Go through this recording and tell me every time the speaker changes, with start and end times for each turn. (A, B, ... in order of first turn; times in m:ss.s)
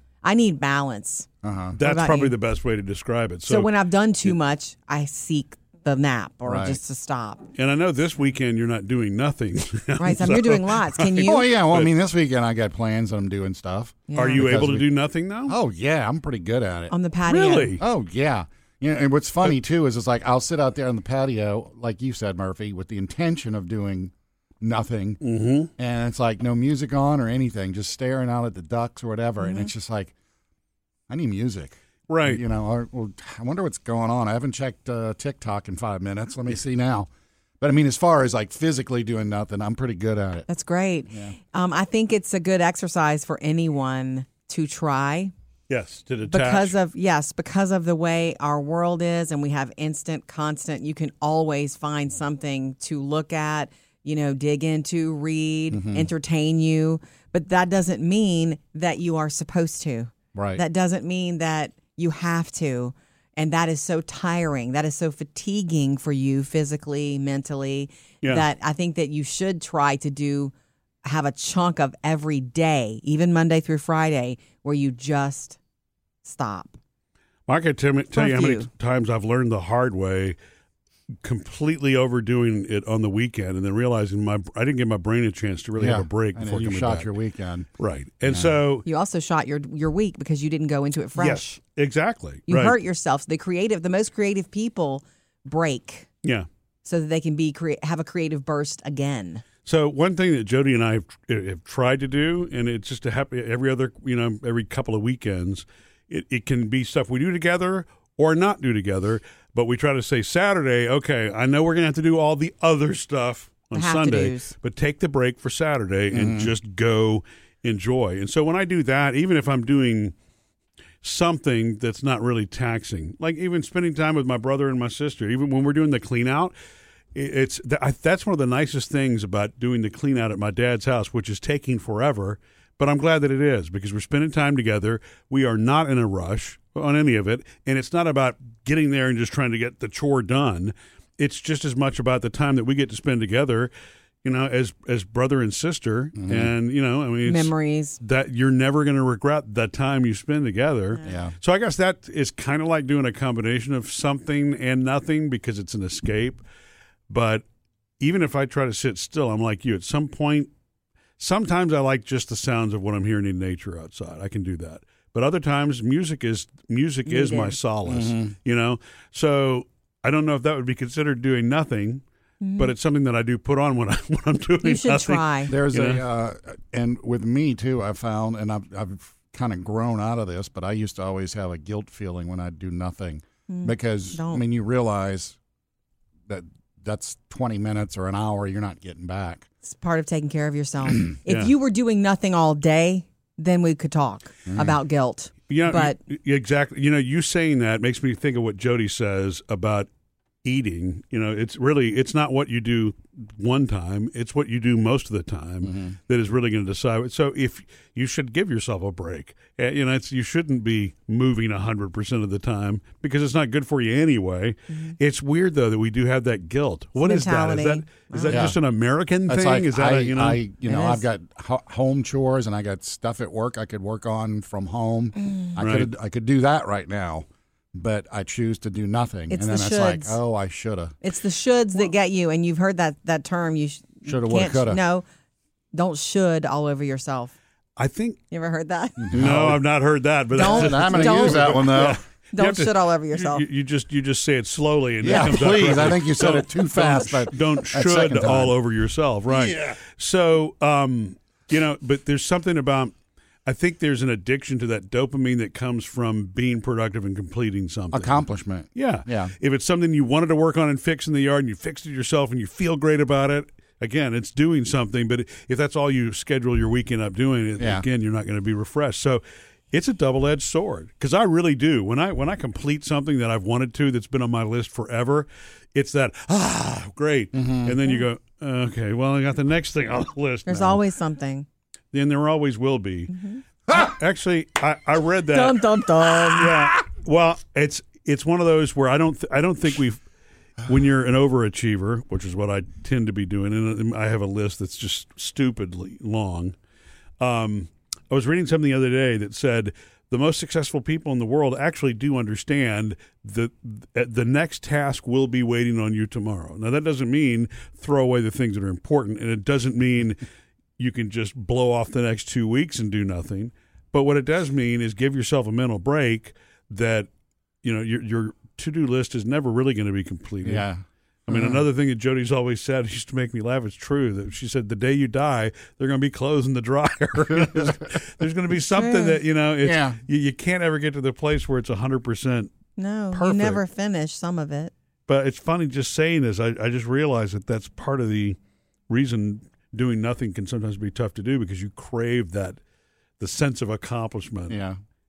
0:00.2-0:01.3 A
0:01.4-0:01.8 B
0:01.8-0:03.7 C
0:01.8-0:02.4 A
0:03.4-0:07.5 A
0:06.4-0:06.8 B
0:07.6-0:11.9 C
0:10.0-0:11.5 A
0:11.2-0:14.9 B
0:14.1-0:14.5 A
0:14.2-0:15.5 C
0:15.5-0:16.9 B
0:16.9-0:17.8 A
0:17.2-0:17.8 C
0:17.8-0:25.2 B
0:25.2-0:25.7 C
0:25.8-0:30.1 B
0:29.4-0:29.7 A
0:31.1-0:37.1 B
0:32.1-0:32.4 C
0:37.6-0:40.5 B
0:40.5-0:45.3 A
0:41.1-0:41.4 B
0:45.7-0:46.8 C
0:46.3-1:10.5 A
0:55.7-0:56.1 B
1:00.3-1:00.6 B
1:11.0-1:15.6 A
1:16.2-1:16.8 A
1:17.5-1:20.4 C
1:18.1-1:18.7 A
1:21.2-1:27.1 C
1:25.8-1:27.7 B
1:27.8-1:28.8 C
1:28.2-1:28.6 B
1:28.8-1:31.6 A
1:31.2-1:32.8 C
1:32.5-1:36.1 A
1:36.8-1:39.4 A
1:39.6-2:00.1 C
1:53.7-1:54.5 A
1:56.1-1:56.5 B
2:01.0-2:06.5 C
2:07.1-2:23.7 C
2:24.2-2:36.4 C
2:26.2-2:26.5 B
2:27.2-2:28.0 A
2:31.1-2:31.4 B
2:37.1-2:37.4 C
2:38.0-2:40.5 C
2:41.2-2:52.0 C
2:47.1-2:47.6 A
2:47.9-2:48.3 B
2:52.4-2:52.7 A
2:52.6-2:56.0 C
2:54.6-2:55.5 A
2:55.5-3:05.4 B
3:03.5-3:04.4 A
3:06.3-3:09.4 B
3:09.6-3:16.0 A
3:11.3-3:11.5 C
3:14.5-3:14.8 B
3:15.5-3:19.9 C
3:20.4-3:40.4 C
3:25.6-3:26.0 B
3:37.0-3:38.5 A
3:38.3-3:38.6 B
3:39.3-3:51.0 B
3:40.6-3:41.0 A
3:45.2-3:45.6 A
3:45.6-3:45.9 C
3:49.3-3:50.2 A
3:51.0-3:55.0 A
3:54.0-3:54.8 B
3:55.7-3:57.3 A
3:57.8-3:58.2 C
3:58.3-3:59.1 A
3:59.0-3:59.6 B
3:59.1-4:12.9 C
4:00.4-4:03.4 A
4:00.4-4:02.0 B
4:05.0-4:08.6 B
4:13.4-4:18.2 C
4:17.9-4:19.3 B
4:18.8-4:40.8 C
4:27.6-4:27.8 B
4:37.3-4:37.8 B
4:40.4-4:41.4 A
4:41.9-4:43.1 C
4:43.1-4:43.4 A
4:43.7-4:50.0 C
4:45.3-4:46.7 A
4:50.6-4:56.6 C
4:57.2-5:10.2 C
5:10.8-5:17.1 C
5:17.6-5:20.6 C
5:20.4-5:21.6 B
5:21.3-5:32.5 C
5:28.7-5:29.2 A
5:29.6-5:30.0 B
5:32.8-5:34.7 A
5:33.1-5:33.6 C
5:35.1-5:38.4 C
5:38.9-5:42.6 C
5:43.2-5:44.6 C
5:44.5-5:44.8 B